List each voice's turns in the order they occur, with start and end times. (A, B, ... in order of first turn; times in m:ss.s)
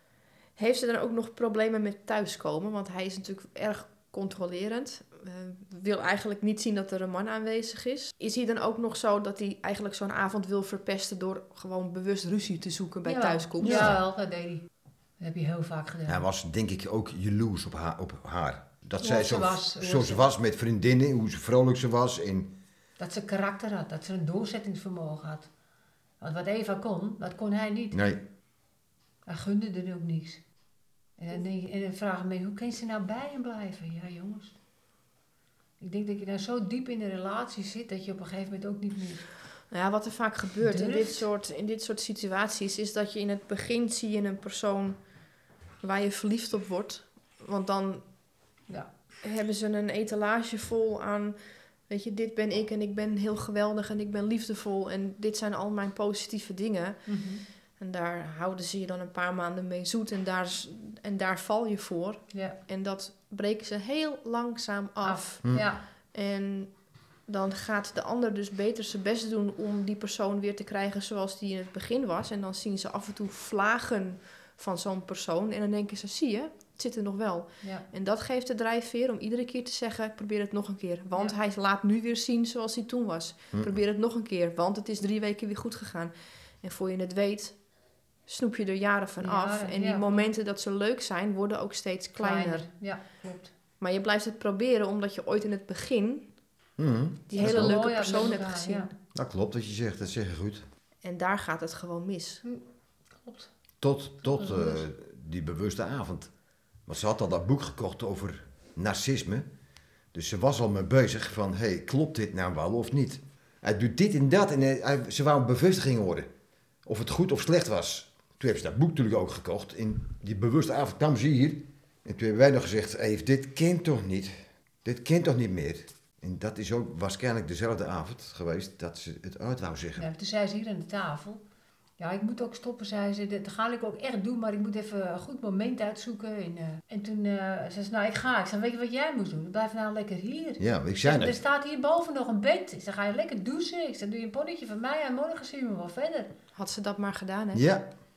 0:00.6-0:13.9 A
0:13.0-0:14.6 B
0:13.6-0:14.0 C
0:15.2-0:16.2 B
0:16.1-0:22.5 C
0:19.0-0:20.3 B
0:23.0-0:25.5 B
0:26.2-0:28.0 B
0:27.9-0:28.2 C
0:29.3-0:30.4 B
0:31.2-0:34.6 B
0:35.8-0:39.3 B
0:39.7-0:45.0 A
0:40.6-0:41.3 B
0:45.8-0:48.0 A
0:49.2-0:57.3 A
0:57.1-0:57.4 B
0:57.8-1:06.7 A
1:05.0-1:05.8 B
1:07.3-1:27.6 A
1:28.3-1:32.7 A
1:29.2-1:30.2 B
1:32.2-1:33.5 B
1:33.8-1:36.3 A
1:36.8-1:37.8 C
1:37.3-1:38.9 A
1:37.4-1:38.9 B
1:39.1-1:40.6 C
1:41.0-1:42.4 A
1:43.2-1:43.5 B
1:43.8-1:46.3 C
1:44.2-1:44.8 B
1:46.9-1:49.5 C
1:50.1-1:56.3 C
1:56.9-2:04.3 C
2:04.8-2:10.1 C
2:10.0-2:11.4 B
2:12.0-2:26.3 B
2:20.6-2:21.4 C
2:26.6-2:27.6 A
2:27.5-2:27.9 C